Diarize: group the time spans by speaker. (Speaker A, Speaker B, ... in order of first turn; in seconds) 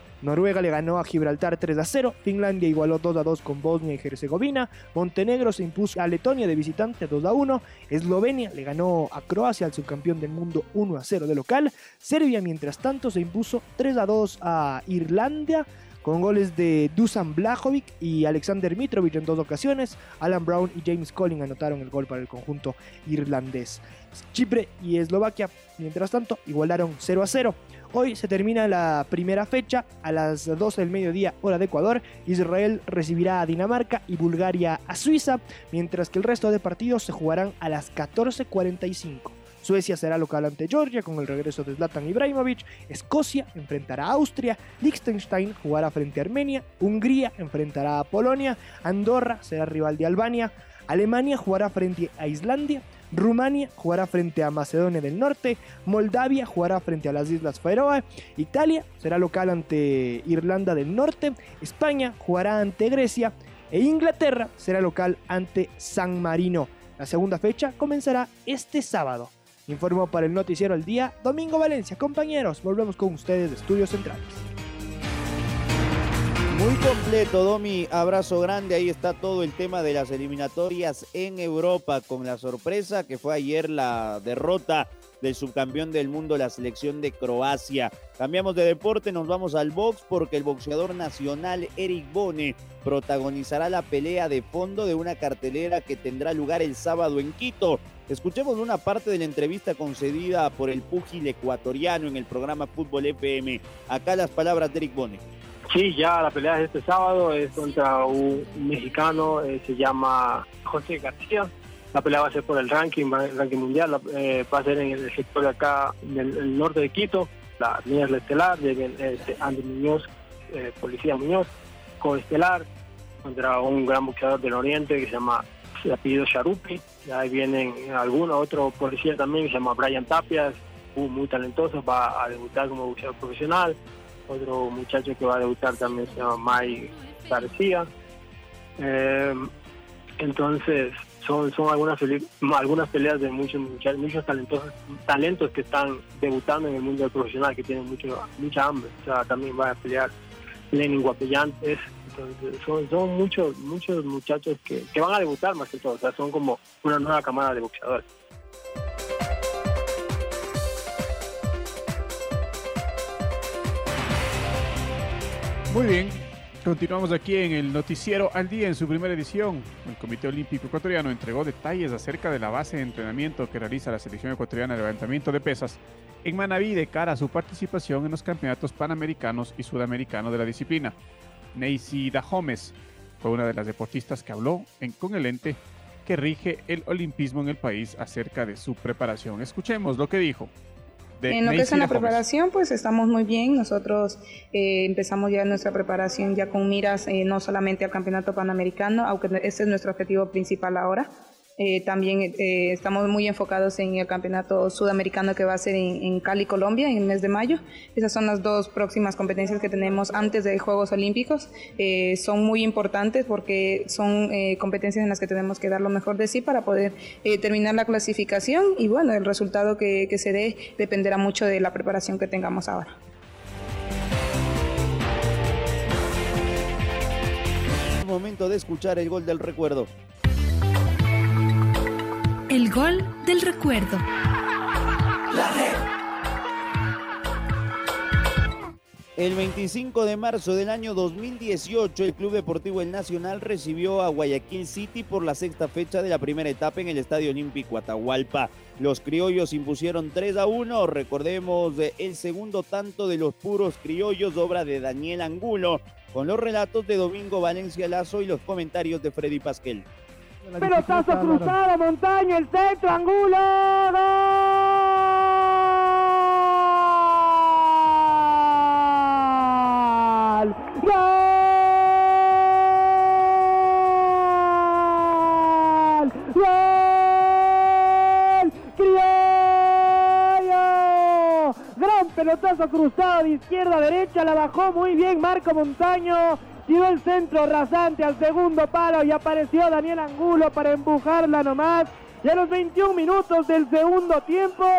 Speaker A: 0.2-74.4
Speaker B: 76.5-105.2, 228.0-229.9, 239.2-259.9
Speaker C: 105.7-121.5, 122.0-122.6, 123.2-133.8, 134.3-137.8, 138.8-139.4, 140.2-150.1, 150.7-158.0
Speaker D: 107.3-109.5, 135.6-137.6, 232.5-234.0
Speaker E: 165.7-180.9, 181.5-190.5, 191.2-192.2
Speaker F: 191.3-222.9
Speaker G: 260.6-264.8, 270.1-271.8, 276.2-277.0, 278.8-279.5, 280.5-281.1, 281.6-294.6